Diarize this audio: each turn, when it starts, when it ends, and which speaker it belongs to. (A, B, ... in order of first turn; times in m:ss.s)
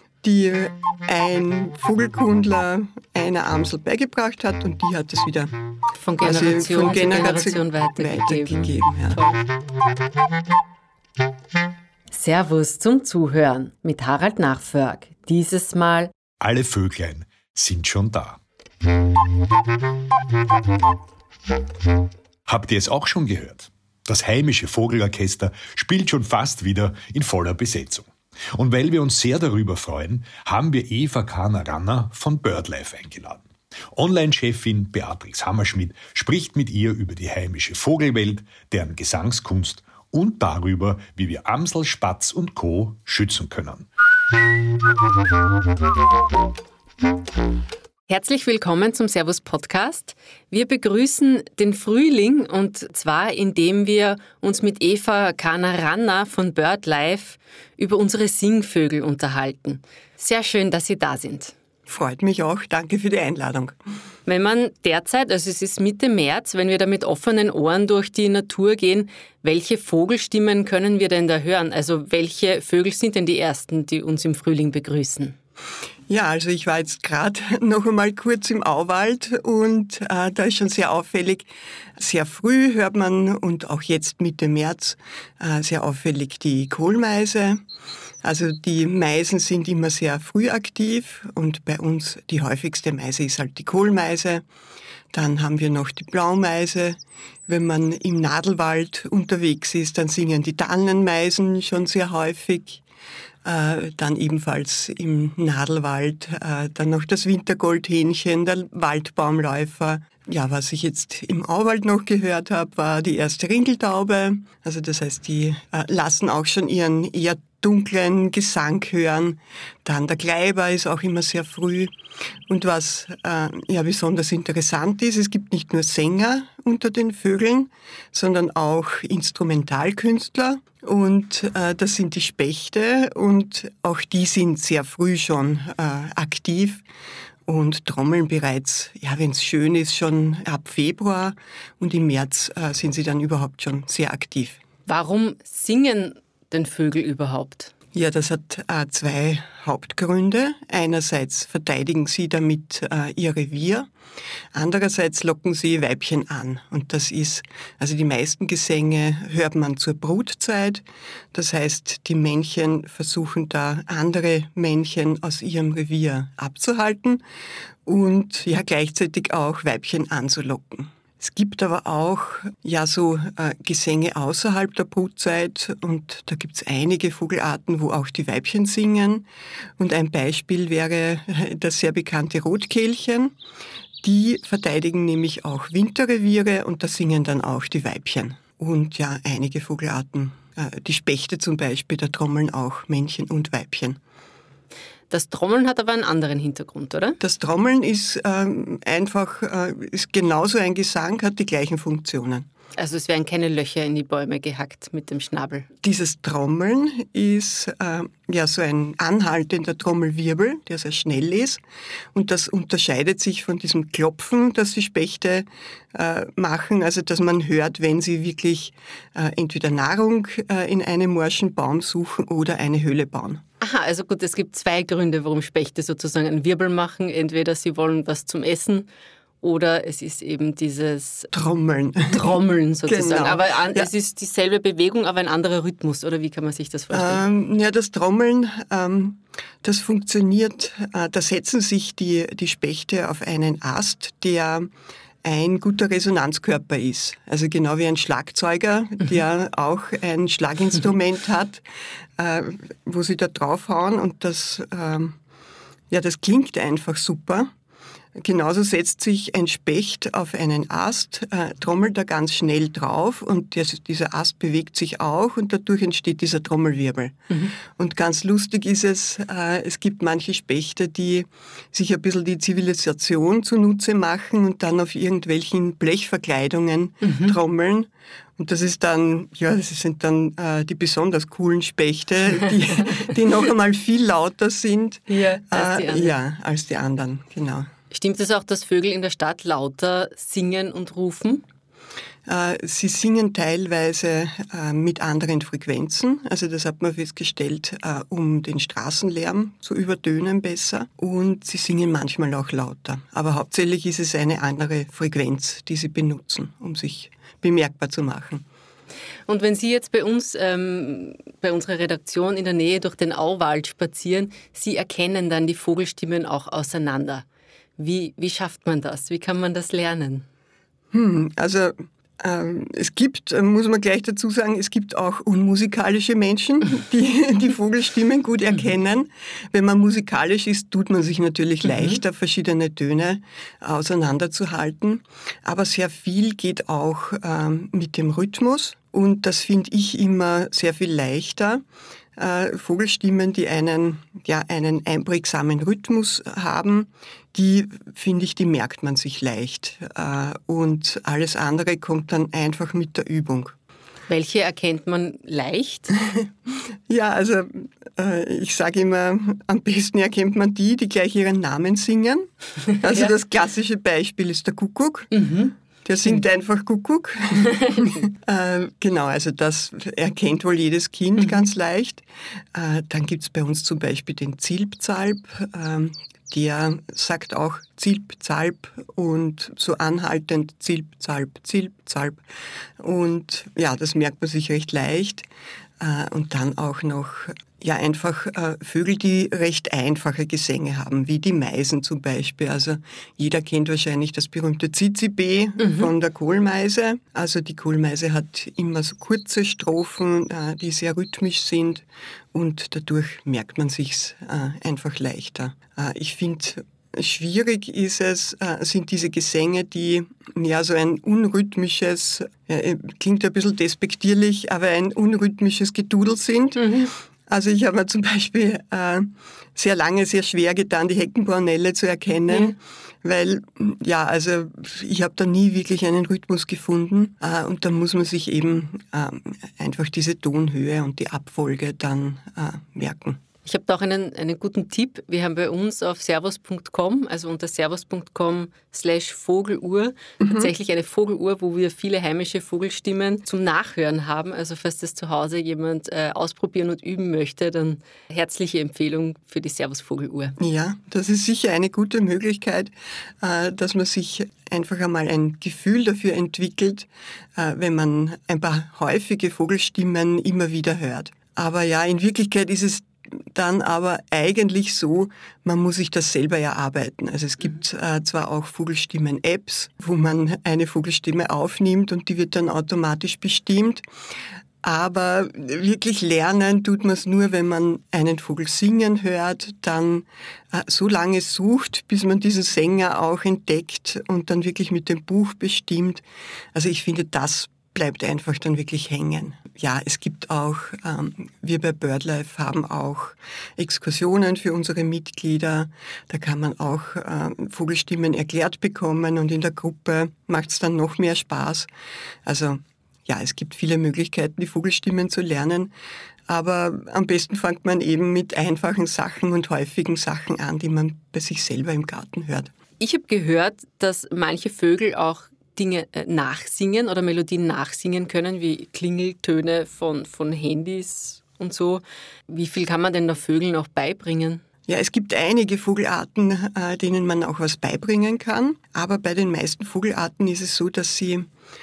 0:00.2-0:05.5 A
0:06.0-0:09.4 B
0:06.2-0:09.2 A
0:12.1-0:16.1 B
0:16.4-0:18.4 C
0:22.5-0:43.9 C
0:48.1-1:01.6 B
1:01.9-1:03.8 A
1:04.3-1:15.4 B
1:16.1-1:27.6 A
1:28.2-1:34.4 A
1:35.1-1:42.8 A
1:43.4-2:01.9 A
2:02.5-2:16.8 A
2:17.5-2:24.6 A
2:24.9-2:27.7 B
2:27.9-2:33.9 A
2:34.5-2:47.2 A
2:47.9-2:59.3 A
2:59.8-3:03.4 A
3:04.0-3:14.0 A
3:15.1-3:17.2 B
3:17.2-3:22.5 A
3:22.8-3:25.7 B
3:25.8-3:31.6 A
3:32.1-3:43.4 A
3:43.6-3:48.9 B
3:49.4-3:51.3 B
3:51.3-3:52.3 A
3:52.1-3:57.2 B
3:52.9-3:53.9 A
3:56.9-4:04.7 A
4:05.2-4:11.6 A
4:12.2-4:15.2 A
4:15.9-4:17.5 A
4:18.2-4:47.7 A
4:37.0-4:37.4 B
4:45.1-4:46.1 B
4:47.9-4:51.4 B
4:52.3-5:08.4 A
5:09.3-5:17.3 B
5:17.8-5:20.3 B
5:20.9-5:41.6 A
5:42.2-5:53.6 A
5:54.1-5:56.0 B
5:56.9-6:02.3 A
6:02.7-6:03.1 B
6:02.8-6:05.1 A
6:05.1-6:06.2 B
6:05.8-6:22.2 A
6:07.5-6:07.9 B
6:22.8-6:25.2 A
6:25.8-7:13.2 A
6:35.6-6:35.9 B
6:56.6-6:56.9 B
7:13.4-7:30.4 B
7:20.2-7:20.5 A
7:30.4-7:53.8 A
7:54.6-8:21.7 A
8:22.3-8:25.7 A
8:26.3-8:32.5 A
8:32.8-8:44.4 B
8:44.7-8:51.3 A